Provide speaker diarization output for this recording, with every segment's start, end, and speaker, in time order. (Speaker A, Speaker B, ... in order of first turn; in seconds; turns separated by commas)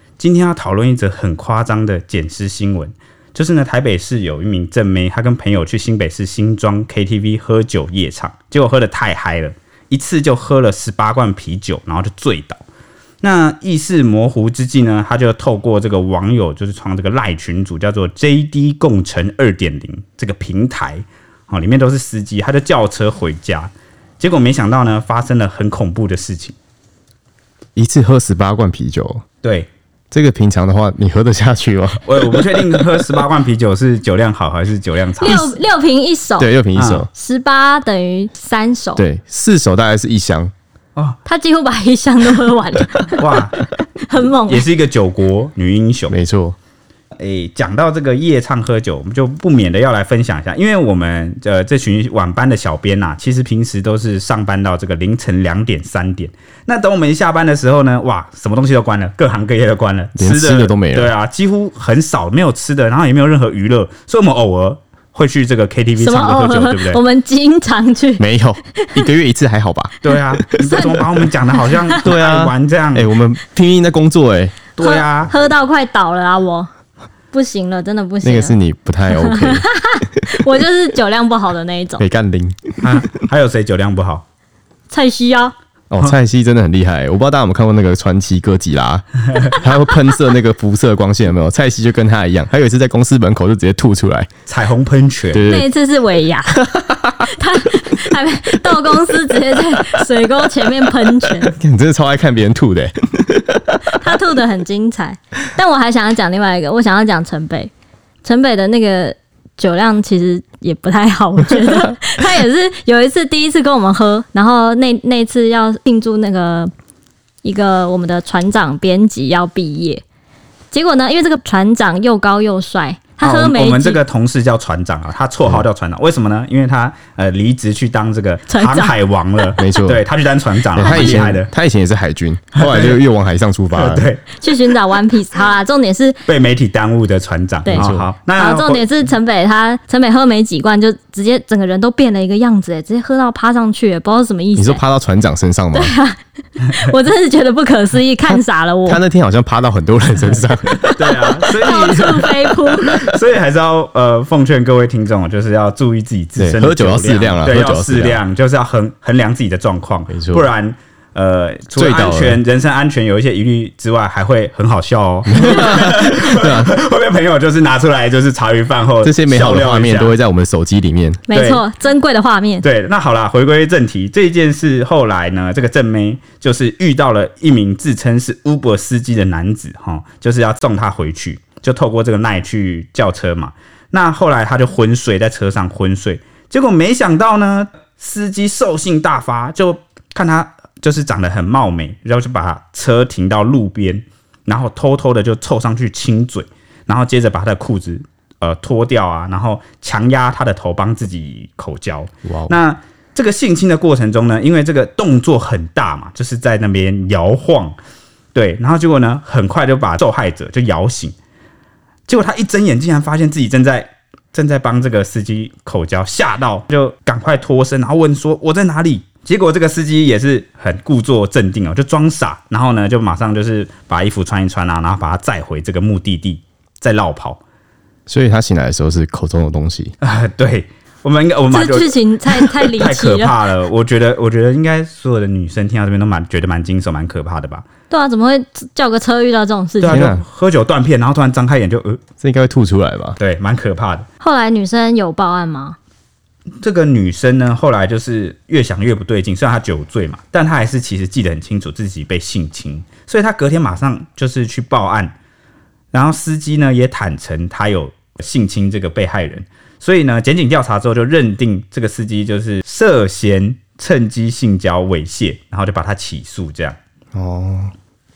Speaker A: 0.2-12.6, Speaker A: 13.2-26.5, Speaker B: 27.7-29.2, Speaker A: 29.4-29.7, Speaker B: 30.1-33.1, Speaker A: 32.0-35.5, Speaker C: 35.2-36.5, Speaker B: 36.4-37.1, Speaker A: 36.7-37.1, Speaker C: 37.1-39.0, Speaker B: 39.0-40.5, Speaker C: 41.2-43.4, Speaker A: 43.2-43.6, Speaker C: 44.0-44.6, Speaker A: 44.5-46.1, Speaker B: 46.1-46.6, Speaker A: 47.2-67.0, Speaker B: 60.1-61.1, Speaker C: 66.0-68.2, Speaker B: 68.2-69.9, Speaker A: 70.0-73.1, Speaker B: 70.5-71.3, Speaker C: 70.6-71.0, Speaker C: 71.6-72.0, Speaker B: 72.0-74.6, Speaker A: 74.8-75.3, Speaker C: 74.8-76.7, Speaker C: 77.3-78.6, Speaker B: 78.2-79.7, Speaker C: 79.1-82.0, Speaker B: 82.0-83.0, Speaker A: 82.8-84.2, Speaker C: 84.9-85.5, Speaker B: 85.9-94.3, Speaker A: 94.5-95.5, Speaker B: 95.3-95.7, Speaker C: 95.5-101.5, Speaker B: 96.7-97.2, Speaker B: 101.4-104.0, Speaker C: 103.9-107.7, Speaker C: 108.2-116.7, Speaker C: 117.4-120.0, Speaker C: 120.7-124.0, Speaker A: 123.2-131.5, Speaker C: 128.5-128.9, Speaker B: 129.6-130.0, Speaker B: 130.7-134.1, Speaker C: 130.8-131.3, Speaker A: 132.5-133.0, Speaker A: 133.7-134.2, Speaker C: 134.4-136.2, Speaker A: 136.3-138.9, Speaker C: 137.7-144.8, Speaker B: 137.7-138.1, Speaker B: 144.5-145.9, Speaker C: 145.7-149.0, Speaker B: 148.2-151.3, Speaker A: 150.9-170.1, Speaker C: 151.5-153.0, Speaker B: 156.3-158.2, Speaker B: 160.1-160.5, Speaker B: 161.8-162.4, Speaker B: 165.3-166.7, Speaker B: 169.0-171.2, Speaker C: 171.3-172.7, Speaker A: 171.3-171.6, Speaker A: 172.6-207.8, Speaker B: 202.2-202.5, Speaker A: 208.3-211.1, Speaker A: 212.1-227.4, Speaker B: 228.1-229.9, Speaker A: 230.0-237.7, Speaker C: 231.5-233.4, Speaker C: 237.9-240.1, Speaker A: 239.8-242.0, Speaker B: 239.9-240.2, Speaker B: 242.2-243.2, Speaker A: 243.2-244.1, Speaker C: 244.2-245.8, Speaker A: 246.6-255.1, Speaker A: 255.9-266.8, Speaker B: 267.1-267.7